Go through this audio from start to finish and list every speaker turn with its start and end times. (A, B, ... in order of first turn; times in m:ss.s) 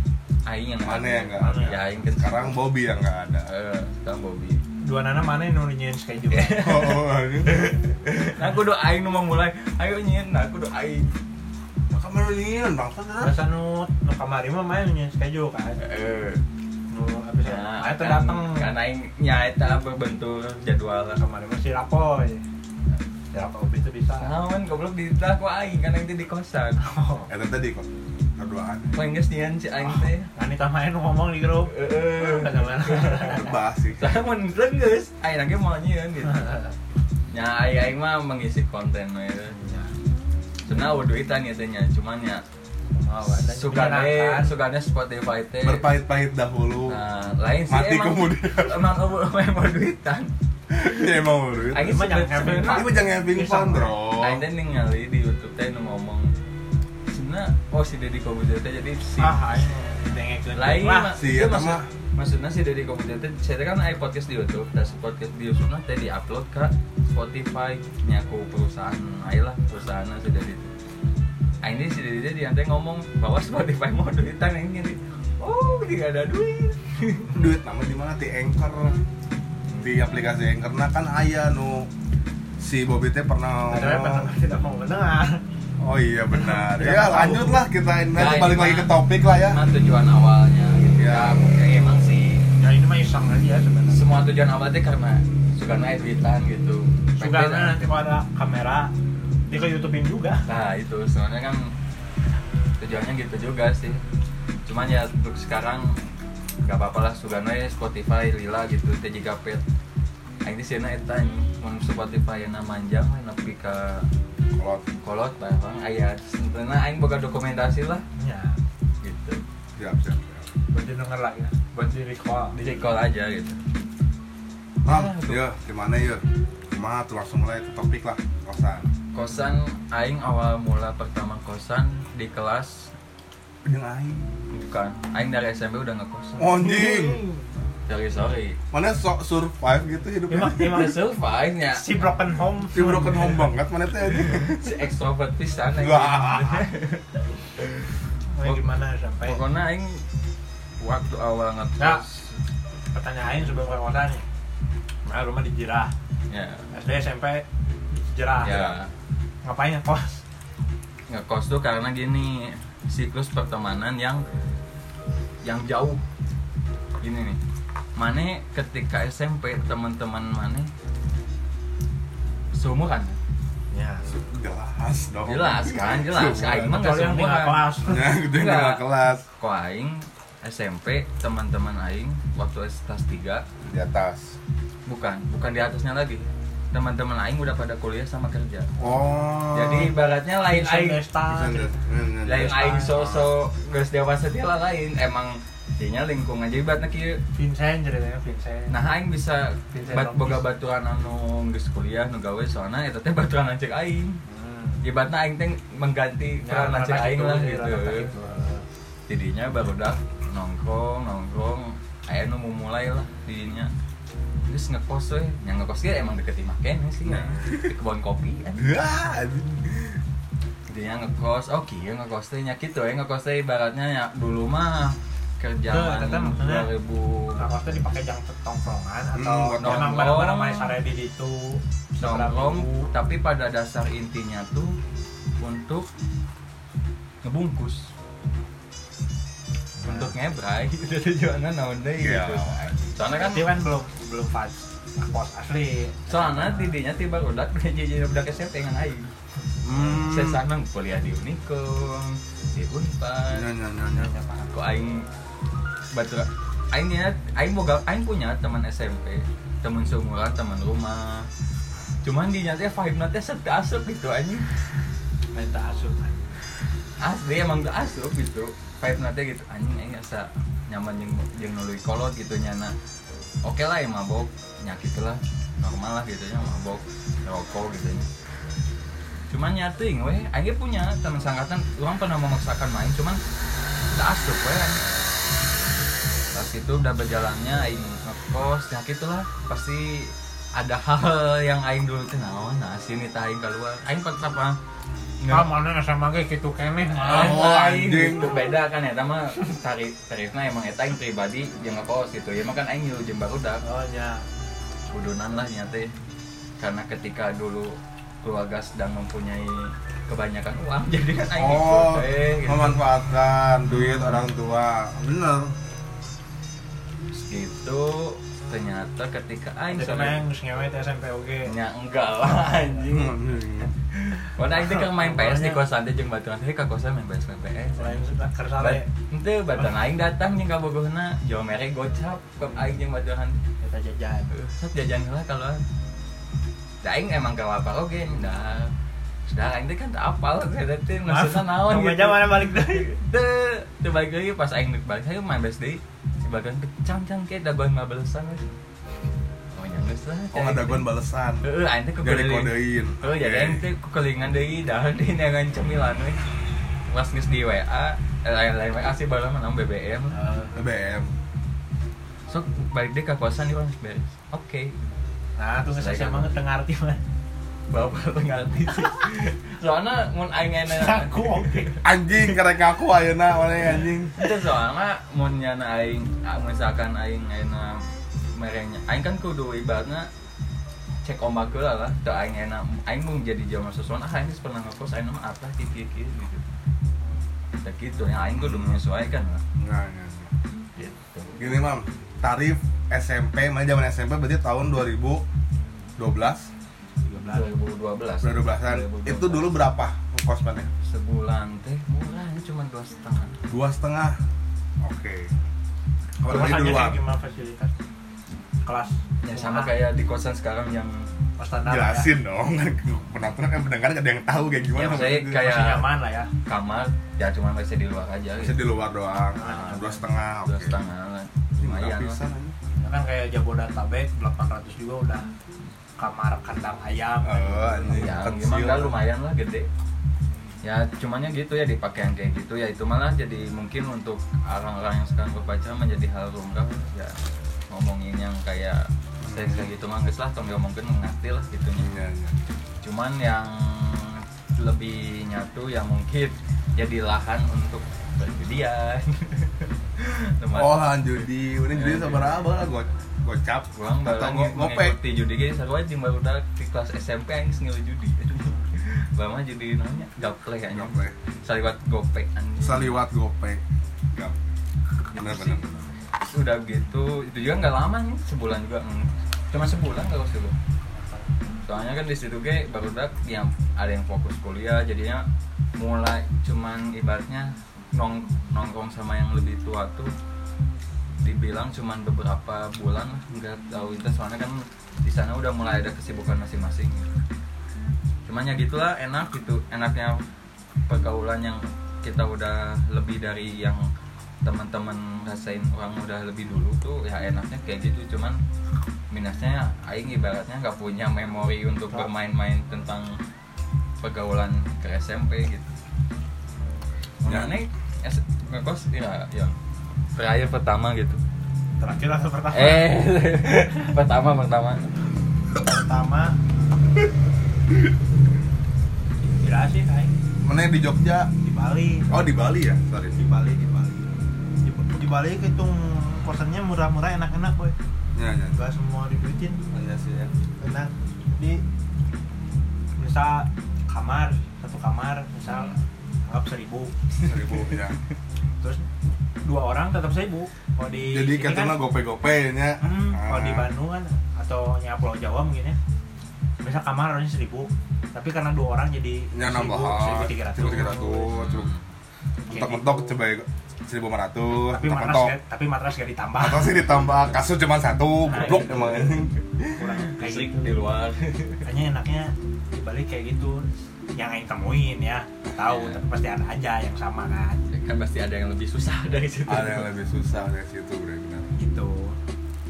0:00.4-0:02.6 A
0:00.8-0:03.5 B
0:01.4-0:01.8 C
0:03.5-0:04.6 A
0:04.8-0:06.8 C
0:06.3-0:11.2 A
0:06.6-0:07.7 B
0:11.9-0:13.4 B
0:13.2-0:15.8 C
0:15.8-0:16.4 A
0:16.9-0:18.7 C
0:17.4-0:21.2 A
0:21.2-0:22.4 C
0:23.3-0:24.3 C
0:24.1-0:26.8 A
0:26.8-0:27.3 C
0:27.3-0:29.0 B
0:28.9-0:30.3 A
0:29.8-0:33.5 C
0:31.6-0:36.5 A
0:33.4-0:34.2 B
0:36.2-0:36.7 C
0:37.3-0:39.6 A
0:39.5-0:39.9 C
0:40.6-0:42.4 A
0:42.9-0:44.5 C
0:43.2-0:45.9 A
0:45.6-0:47.0 B
0:46.9-0:50.3 A
0:47.7-0:48.8 B
0:50.7-0:52.0 B
0:51.7-0:52.9 A
0:51.8-0:53.9 C
0:52.7-0:54.4 B
0:54.2-0:56.3 A
0:57.1-0:59.4 A
0:59.2-1:01.1 C
1:00.5-1:10.7 A
1:01.1-1:01.9 B
1:11.6-1:17.3 A
1:17.3-1:19.0 B
1:19.8-1:21.9 B
1:22.6-1:24.3 B
1:23.7-1:25.4 C
1:25.8-1:29.6 B
1:26.3-1:27.6 C
1:28.1-1:28.9 A
1:29.4-1:32.5 A
1:31.0-1:31.4 B
1:32.6-1:34.0 C
1:33.9-1:37.8 A
1:37.2-1:38.9 C
1:39.4-1:40.4 C
1:40.5-1:41.7 A
1:42.8-1:44.0 A
1:44.6-1:46.0 A
1:46.6-1:49.6 A
1:50.4-1:54.1 A
1:54.5-1:54.8 B
1:55.0-1:58.0 A
1:58.2-1:58.6 C
1:59.0-1:59.4 A
1:59.8-2:00.5 B
2:00.7-2:02.6 C
2:02.5-2:03.6 A
2:04.8-2:08.9 B
2:04.8-2:05.4 A
2:09.1-2:12.9 A
2:13.6-2:14.3 B
2:14.5-2:16.5 A
2:16.4-2:17.2 B
2:16.4-2:17.5 C
2:17.9-2:18.6 A
2:18.7-2:20.9 B
2:20.3-2:21.1 C
2:20.6-2:22.1 A
2:21.7-2:23.5 C
2:22.7-2:24.6 B
2:24.1-2:27.9 A
2:25.8-2:26.6 B
2:28.3-2:29.4 C
2:29.2-2:30.0 A
2:30.8-2:32.4 A
2:32.9-2:34.2 C
2:35.0-2:35.9 C
2:36.3-2:36.7 A
2:36.7-2:38.8 C
2:38.4-2:38.9 A
2:39.4-2:40.2 C
2:41.1-2:44.2 A
2:45.4-2:46.0 A
2:47.0-2:47.4 A
2:48.0-2:50.7 A
2:52.5-2:53.2 A
2:53.7-2:54.0 C
2:54.0-2:56.7 B
2:55.2-2:57.6 A
2:56.5-2:58.2 C
2:57.8-2:59.2 B
2:58.3-2:58.8 A
2:59.4-3:03.4 A
3:03.6-3:04.4 B
3:04.8-3:08.7 A
3:08.8-3:09.9 B
3:09.5-3:11.0 A
3:10.4-3:11.8 C
3:11.3-3:12.9 B
3:12.2-3:17.2 A
3:12.4-3:13.2 C
3:17.3-3:18.7 C
3:18.7-3:24.2 A
3:19.7-3:20.4 C
3:24.2-3:24.8 C
3:24.8-3:28.1 A
3:26.4-3:28.6 C
3:29.1-3:33.7 A
3:34.5-3:38.8 A
3:37.1-3:37.6 B
3:38.6-3:40.0 B
3:40.7-3:47.4 A
3:45.7-3:46.7 C
3:47.4-3:52.9 C
3:49.2-3:50.0 B
3:49.6-3:50.7 A
3:52.0-3:54.8 A
3:55.4-3:55.9 A
3:57.2-3:57.9 A
3:59.8-4:00.1 C
3:59.8-4:03.5 A
4:02.0-4:02.8 B
4:03.1-4:06.7 C
4:06.1-4:09.1 A
4:09.6-4:10.4 B
4:09.8-4:13.5 A
4:13.3-4:14.1 B
4:13.9-4:14.6 C
4:14.5-4:15.1 A
4:15.9-4:21.3 A
4:22.0-4:24.4 A
4:25.3-4:26.4 C
4:27.0-4:32.7 A
4:33.4-4:38.1 A
4:39.3-4:43.2 A
4:43.9-4:44.8 A
4:46.3-4:54.6 A
4:55.2-4:55.5 A
4:55.3-4:57.4 C
4:56.9-5:03.6 A
4:57.0-4:58.4 B
5:03.6-5:04.2 C
5:04.9-5:05.9 A
5:06.6-5:12.8 A
5:11.4-5:15.5 B
5:13.6-5:14.2 A
5:17.1-5:20.2 A
5:19.7-5:21.5 C
5:21.4-5:28.0 A
5:22.9-5:23.7 B
5:24.5-5:25.6 C
5:27.8-5:28.9 C
5:28.6-5:33.4 A
5:33.6-5:34.3 C
5:34.3-5:35.6 A
5:36.8-5:38.7 A
5:39.3-5:48.5 A
5:41.0-5:42.9 C
5:49.5-5:50.8 A
5:50.3-5:51.4 B
5:51.4-5:56.3 A
5:52.0-5:53.6 B
5:56.9-6:00.2 A
6:00.1-6:00.6 C
6:00.5-6:01.1 B
6:02.3-6:04.8 A
6:05.4-6:07.0 C
6:05.7-6:06.4 A
6:07.7-6:11.7 A
6:10.7-6:11.7 C
6:11.8-6:14.2 B
6:14.1-6:20.1 A
6:21.0-6:26.4 A
6:27.6-6:29.4 A
6:28.4-6:28.8 B
6:29.6-6:30.3 B
6:30.8-6:31.4 A
6:31.4-6:35.2 B
6:36.0-6:36.5 B
6:37.0-6:37.6 C
6:37.3-6:39.6 A
6:38.2-6:40.7 B
6:40.8-6:43.4 A
6:43.5-6:44.2 B
6:44.8-6:45.3 B
6:46.2-6:47.0 B
6:46.2-6:47.7 C
6:48.6-6:49.7 C
6:49.2-6:51.1 A
6:51.4-6:52.1 C
6:51.6-6:55.4 B
6:54.8-6:55.9 A
6:54.9-6:56.3 C
6:56.4-6:58.6 A
6:58.4-7:00.8 B
6:59.3-7:00.0 C
7:00.4-7:02.2 A
7:01.6-7:02.6 B
7:02.8-7:05.3 C
7:06.0-7:08.1 C
7:07.2-7:09.0 B
7:07.9-7:09.7 A
7:10.6-7:21.9 A
7:19.2-7:19.7 B
7:21.8-7:22.4 B
7:22.8-7:30.9 A
7:30.5-7:35.0 B
7:31.7-7:32.5 A
7:33.7-7:43.0 A
7:40.7-7:41.1 B
7:42.6-7:43.6 B
7:44.1-7:44.4 B
7:45.1-7:45.6 A
7:45.1-7:45.9 B
7:46.2-7:50.6 A
7:50.9-7:51.3 C
7:51.6-8:00.1 A
8:01.2-8:07.1 A
8:08.2-8:10.2 A
8:10.9-8:13.8 A
8:14.4-8:18.4 A
8:19.1-8:23.2 A
8:24.0-8:25.7 A
8:27.2-8:29.5 A
8:27.2-8:27.5 B
8:30.1-8:31.2 A
8:31.8-8:32.9 C
8:32.5-8:34.9 A
8:35.6-8:36.4 C
8:39.2-8:40.1 C
8:40.4-8:41.3 B
8:41.4-8:42.2 C
8:42.1-8:43.2 B
8:43.2-8:44.0 C
8:44.6-8:47.7 C
8:48.1-8:48.6 B
8:48.5-8:49.6 C
8:49.7-8:50.3 B
8:50.6-8:51.6 C
8:53.0-8:56.9 C
8:57.2-8:58.0 B
8:58.6-8:58.9 C
8:59.4-9:01.7 C
9:01.1-9:03.7 B
9:02.8-9:05.8 C
9:06.6-9:11.3 C
9:09.3-9:11.7 B
9:11.3-9:11.8 A
9:12.4-9:13.2 C
9:12.5-9:15.4 B
9:14.6-9:16.9 C
9:16.4-9:19.8 B
9:18.3-9:20.8 C
9:18.4-9:19.1 A
9:20.1-9:21.7 A
9:21.6-9:27.6 C
9:25.6-9:26.0 A
9:27.7-9:29.9 A
9:29.5-9:31.5 B
9:31.6-9:32.2 C